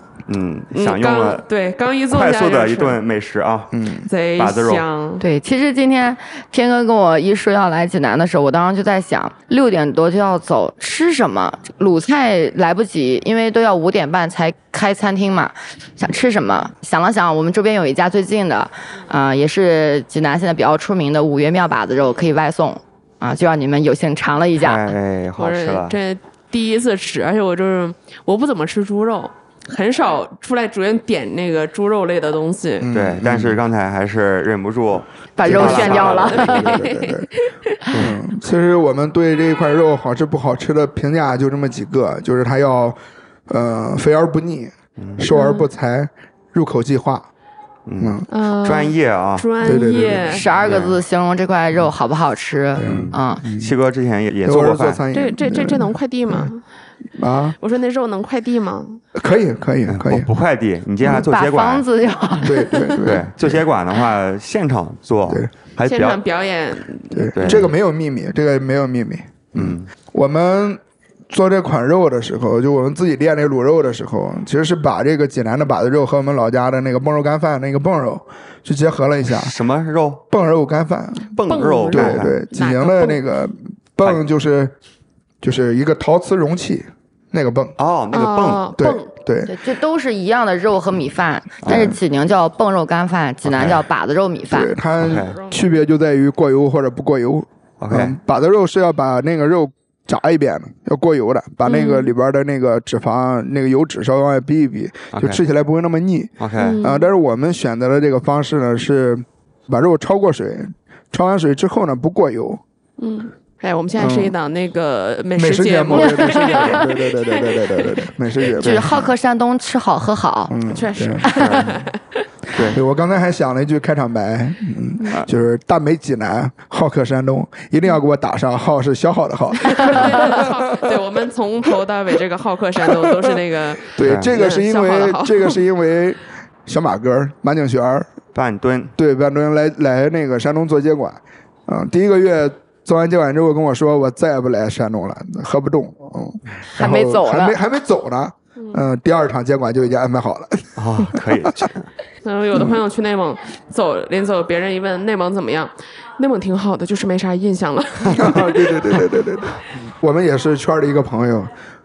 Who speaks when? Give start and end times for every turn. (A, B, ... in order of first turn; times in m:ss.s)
0:00.3-0:01.4 A
0:00.7-0:03.0 B
0:02.1-0:03.7 A
0:03.7-0:04.1 C
0:04.0-0:05.2 B
0:04.4-0:04.8 A
0:05.2-0:24.9 D
0:24.6-0:26.0 A
0:25.4-0:32.9 B
0:32.8-0:33.6 C
0:32.9-0:36.7 A
0:35.4-0:36.7 D
0:35.4-0:37.3 C
0:35.5-0:37.8 B
0:37.9-0:47.3 C
0:45.0-0:45.2 A
0:45.3-0:45.7 B
0:47.8-0:49.5 A
0:48.0-0:48.3 C
0:48.3-0:50.5 B
0:49.6-0:50.4 C
0:50.3-0:53.4 D
0:50.5-0:51.0 A
0:52.8-0:53.7 C
0:52.8-0:55.0 A
0:54.4-0:56.5 C
0:55.1-0:56.6 B
0:57.2-0:57.6 C
0:57.6-0:59.0 B
0:59.1-1:00.3 C
0:59.9-1:01.8 A
1:01.0-1:02.8 D
1:02.4-1:03.6 C
1:03.0-1:06.2 A
1:05.3-1:05.5 C
1:05.8-1:07.6 B
1:07.1-1:19.5 C
1:07.3-1:07.7 A
1:09.5-1:09.9 A
1:19.3-1:20.2 A
1:20.3-1:21.4 C
1:21.3-1:22.3 A
1:21.5-1:23.2 B
1:21.9-1:24.7 C
1:25.4-1:27.8 C
1:27.8-1:28.7 A
1:28.1-1:29.1 B
1:28.8-1:29.5 C
1:29.4-1:34.7 D
1:31.6-1:31.9 A
1:31.7-1:32.0 C
1:33.4-1:33.8 A
1:34.5-1:52.6 C
1:35.0-1:35.4 A
1:35.1-1:35.6 B
1:37.8-1:38.1 A
1:41.6-1:42.1 B
1:45.1-1:45.4 A
1:46.4-1:46.8 A
1:46.6-1:47.1 B
1:53.0-1:58.0 B
1:54.0-1:54.3 C
1:55.4-1:59.0 C
1:58.6-2:00.5 D
1:58.6-1:59.1 A
2:00.5-2:01.4 C
2:00.7-2:02.0 B
2:01.3-2:01.8 A
2:02.5-2:02.8 A
2:02.6-2:11.0 C
2:09.6-2:15.6 B
2:12.8-2:13.4 C
2:13.9-2:18.1 C
2:14.0-2:14.3 A
2:18.3-2:18.9 A
2:19.0-2:31.6 C
2:26.8-2:27.6 D
2:30.8-2:31.9 A
2:32.2-2:38.9 B
2:38.1-2:41.5 C